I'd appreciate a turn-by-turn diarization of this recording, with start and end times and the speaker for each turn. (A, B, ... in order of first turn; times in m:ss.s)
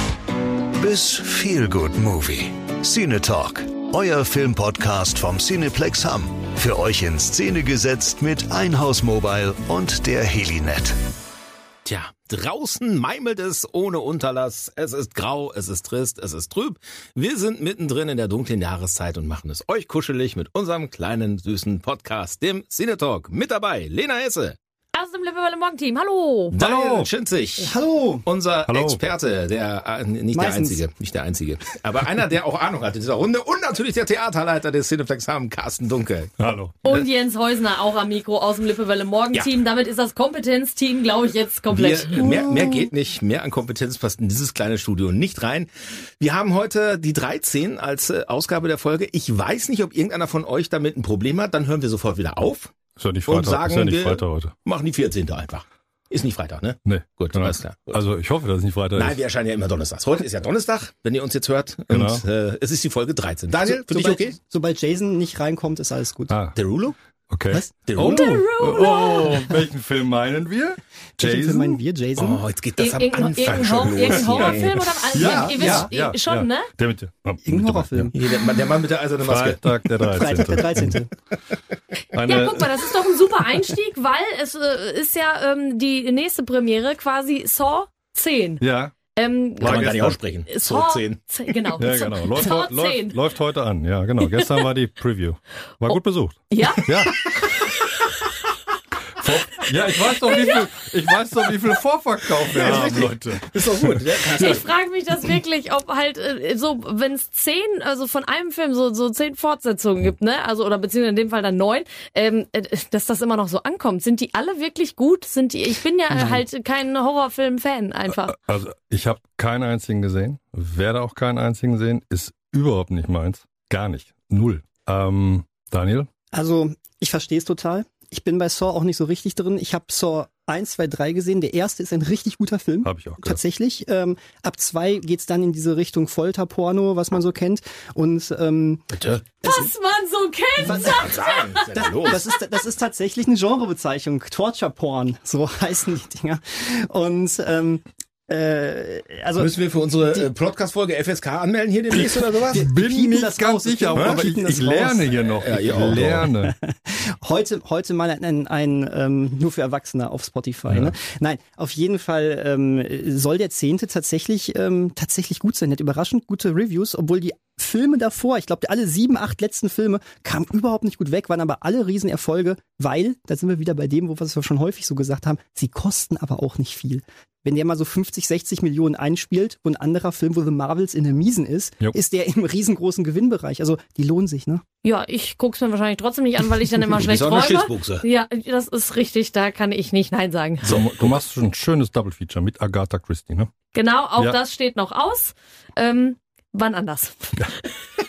0:00.8-0:10.9 A
0:11.8-0:24.6 B
0:24.9-0:26.6 C
0:26.5-0:27.7 B
0:26.6-0:27.1 D
0:27.6-0:28.2 E
0:28.2-0:36.3 B
0:28.7-0:29.0 D
0:30.3-0:30.8 E
0:36.4-0:37.1 D
0:36.8-0:42.8 C
0:41.7-0:45.7 B
0:46.2-0:52.7 B
0:53.0-0:54.5 D
0:53.3-0:58.0 B
0:56.8-0:59.2 D
0:58.9-1:04.4 B
1:01.9-1:02.2 D
1:03.5-1:06.4 E
1:06.3-1:06.6 D
1:06.5-1:07.0 B
1:07.3-1:11.8 D
1:07.9-1:08.3 B
1:08.0-1:09.4 C
1:11.2-1:12.4 E
1:12.2-1:15.0 B
1:12.8-1:16.7 C
1:13.5-1:14.5 D
1:15.1-1:17.9 D
1:15.2-1:15.9 E
1:17.4-1:18.1 E
1:18.0-1:19.6 B
1:19.2-1:21.0 D
1:20.1-1:21.1 E
1:22.1-1:22.7 D
1:22.2-1:28.6 C
1:28.6-1:28.9 D
1:29.1-1:29.9 C
1:29.6-1:30.2 D
1:29.6-1:31.6 B
1:30.5-1:33.2 C
1:31.8-1:37.5 D
1:34.2-1:34.6 C
1:36.5-1:38.1 C
1:39.2-1:44.6 D
1:40.2-1:40.6 C
1:42.5-1:44.6 B
1:44.3-1:58.4 C
1:58.2-2:06.1 D
2:06.3-2:18.9 E
2:12.8-2:13.4 D
2:18.9-2:19.2 B
2:19.4-2:21.7 C
2:20.6-2:21.2 E
2:20.6-2:22.2 B
2:21.7-2:29.5 E
2:29.4-2:32.7 B
2:31.9-2:36.5 D
2:32.5-2:35.1 E
2:33.9-2:34.2 B
2:35.4-2:36.3 B
2:36.4-3:04.6 E
3:04.8-3:10.6 C
3:06.9-3:08.0 B
3:10.6-3:11.2 B
3:10.6-3:13.5 D
3:13.7-3:17.7 C